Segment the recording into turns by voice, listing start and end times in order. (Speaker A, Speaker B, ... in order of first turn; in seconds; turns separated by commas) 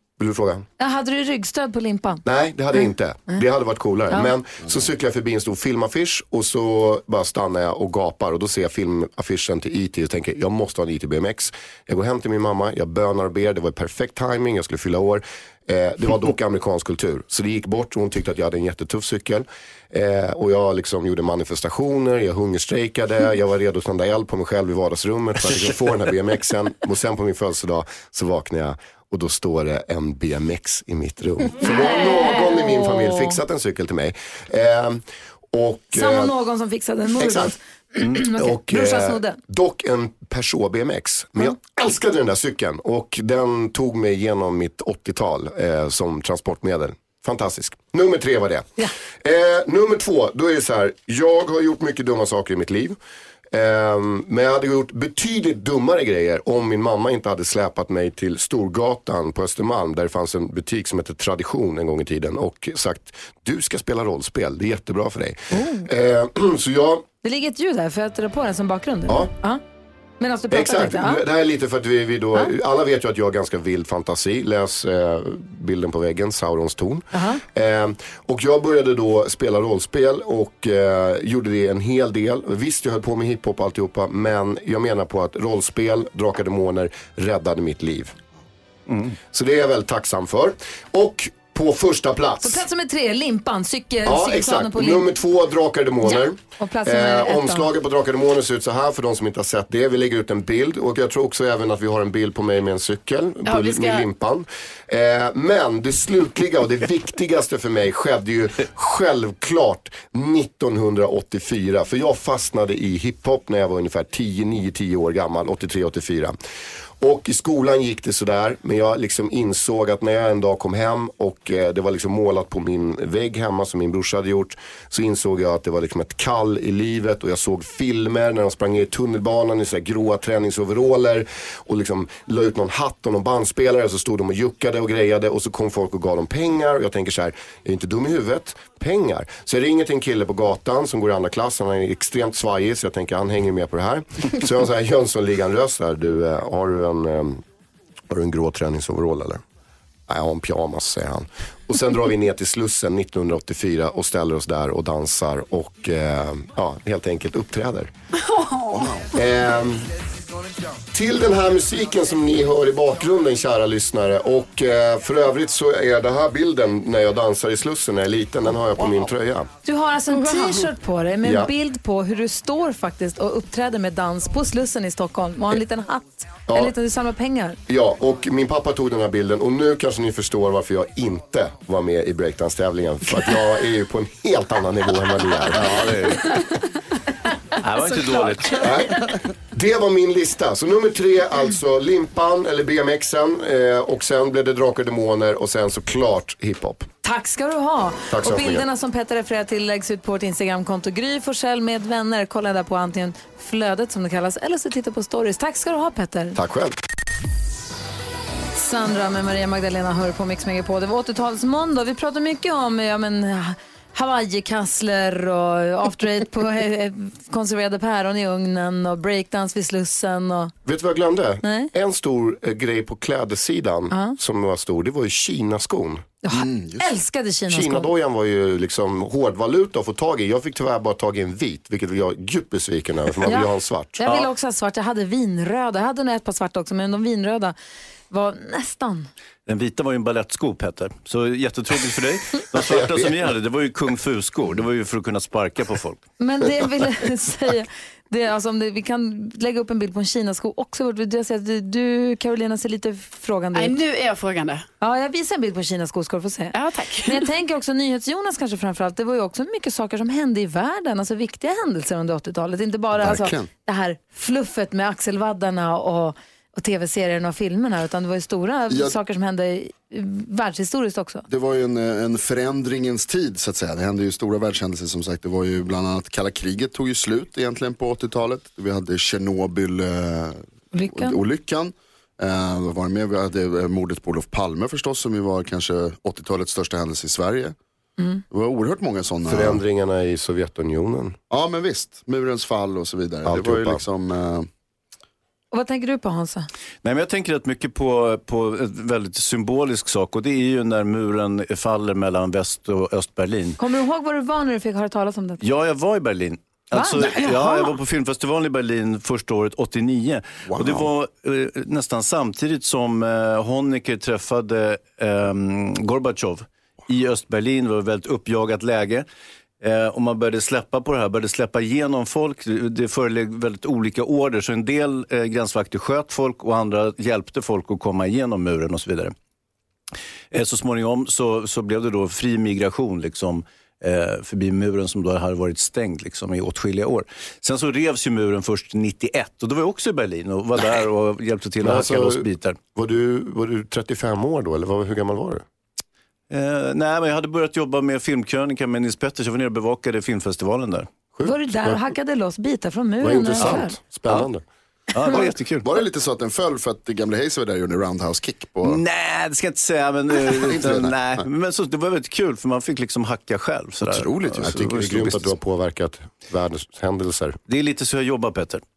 Speaker A: 0.2-0.7, Speaker B: 0.8-2.2, Speaker A: 2.2-36.3, Speaker B: 31.6-33.4, Speaker B: 35.9-39.4, Speaker A: 37.2-53.0, Speaker A: 53.5-67.0, Speaker B: 65.5-65.9, Speaker B: 67.2-69.6, Speaker A: 69.1-69.3, Speaker B: 70.2-71.2, Speaker A: 70.5-88.1, Speaker B: 77.1-77.4, Speaker C: 88.9-89.1, Speaker A: 89.3-92.6, Speaker B: 92.4-95.1, Speaker A: 94.0-116.3, Speaker B: 96.0-97.7, Speaker D: 103.4-104.0, Speaker A: 117.0-147.4, Speaker A: 148.1-149.4, Speaker A: 150.1-157.9, Speaker D: 158.2-158.9, Speaker E: 158.7-159.1, Speaker A: 159.1-159.9, Speaker A: 160.9-169.5, Speaker B: 169.6-177.6, Speaker A: 171.2-171.5, Speaker A: 176.4-176.8, Speaker A: 177.7-185.9, Speaker C: 185.5-186.3, Speaker C: 187.6-188.7, Speaker A: 188.6-196.9, Speaker B: 197.0-206.4, Speaker A: 198.1-198.7, Speaker A: 206.3-206.7, Speaker B: 208.5-220.5, Speaker A: 220.6-226.1, Speaker B: 221.4-221.7, Speaker B: 223.9-224.2, Speaker B: 226.2-227.9, Speaker E: 226.3-226.9, Speaker A: 227.5-234.2, Speaker B: 233.2-237.5, Speaker B: 238.1-239.1, Speaker C: 239.4-246.0, Speaker A: 242.5-243.1, Speaker B: 246.2-253.8, Speaker D: 253.5-254.6, Speaker B: 254.8-271.2, Speaker D: 256.5-257.2, Speaker E: 263.0-263.5, Speaker E: 271.3-287.6, Speaker B: 280.7-281.2, Speaker E: 288.3-289.6, Speaker A: 289.2-291.2, Speaker E: 291.3-294.5, Speaker A: 293.2-293.8, Speaker B: 295.5-296.5, Speaker C: 296.8-303.6, Speaker B: 303.6-305.4, Speaker C: 305.4-319.1, Speaker B: 306.7-307.7, Speaker E: 310.5-310.9, Speaker C: 319.6-329.1, Speaker C: 330.3-342.6, Speaker A: 341.6-345.4, Speaker C: 346.3-350.9, Speaker A: 351.1-351.8, Speaker B: 351.2-353.7, Speaker A: 353.0-354.4, Speaker C: 354.9-355.7, Speaker E: 355.1-358.8, Speaker C: 358.6-365.3, Speaker E: 360.1-361.2, Speaker E: 363.8-365.1, Speaker A: 364.4-367.4, Speaker C: 367.5-368.6